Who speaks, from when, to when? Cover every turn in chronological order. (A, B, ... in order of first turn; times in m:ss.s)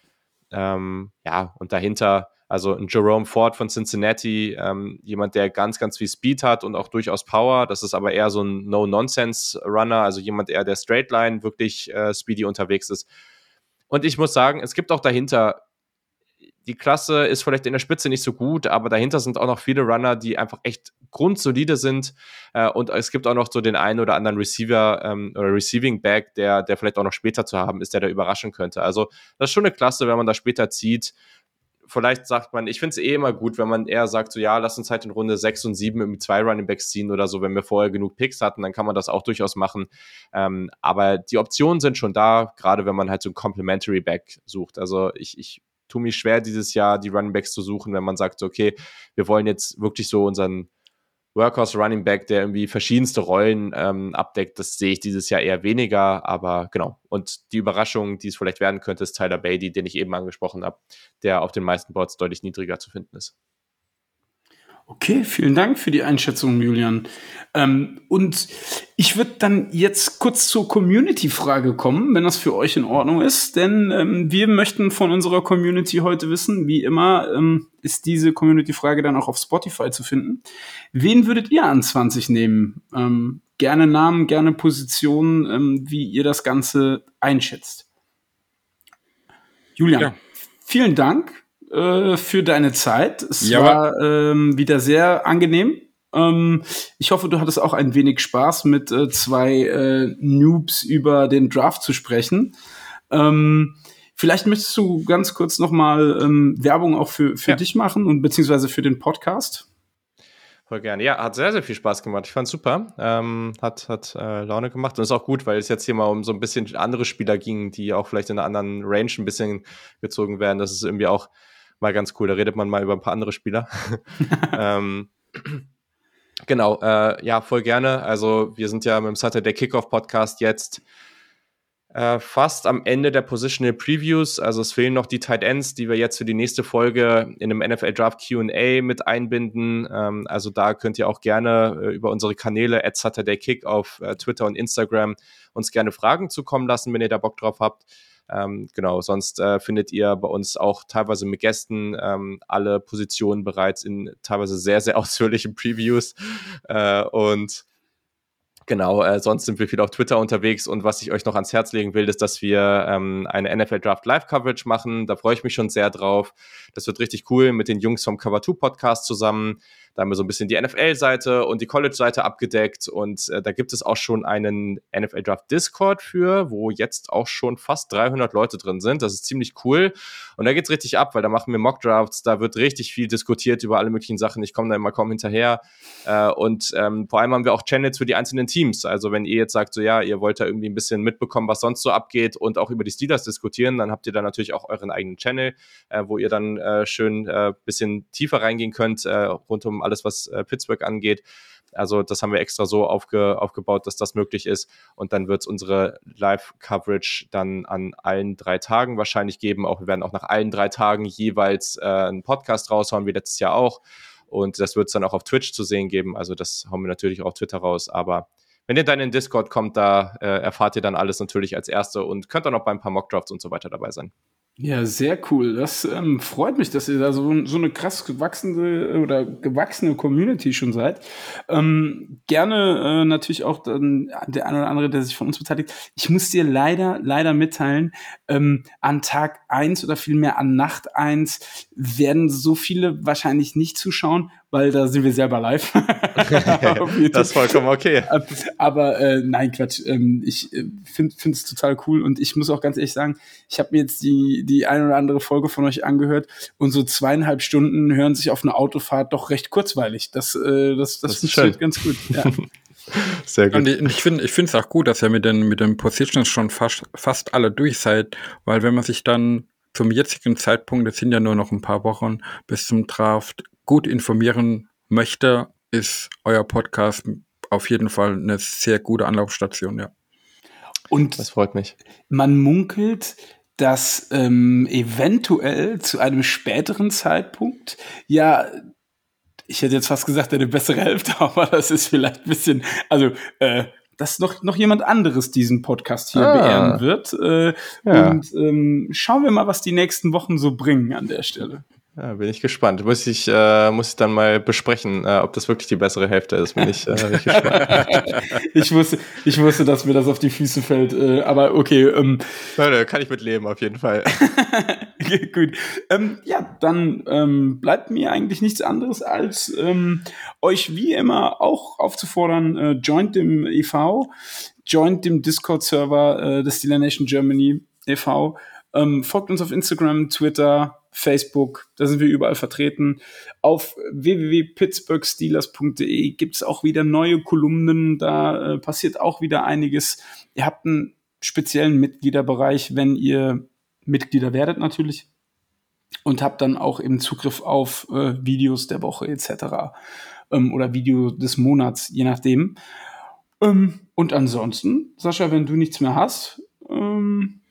0:00.5-0:13.0 A
0:13.9-0:15.6 A
0:16.6-0:31.1 A
0:31.9-0:50.7 A
0:51.3-1:03.3 A
1:04.9-1:20.4 B
1:20.9-1:27.8 B
1:29.8-1:30.1 B
1:30.6-1:42.6 B
1:33.4-1:33.8 C
1:43.1-1:49.6 B
1:50.7-2:01.3 A
2:01.8-2:05.6 A
2:06.5-2:10.8 A
2:11.9-2:37.6 A
2:38.7-3:21.2 A
3:21.7-3:44.1 A
3:44.6-4:22.4 B
4:06.3-4:08.1 A
4:21.1-4:21.6 A
4:22.1-4:22.4 A
4:22.9-4:23.7 A
4:23.5-4:39.9 C
4:40.9-4:41.2 B
4:41.2-4:41.7 A
4:42.1-4:48.7 B
4:49.5-5:01.6 B
4:56.1-4:56.8 A
4:57.8-4:58.2 A
5:02.0-5:07.8 A
5:07.0-5:08.1 C
5:07.3-5:12.2 B
5:12.6-5:14.2 A
5:14.2-5:24.1 B
5:24.6-5:45.1 B
5:46.0-5:49.7 B
5:50.3-5:52.6 B
5:53.4-5:57.4 B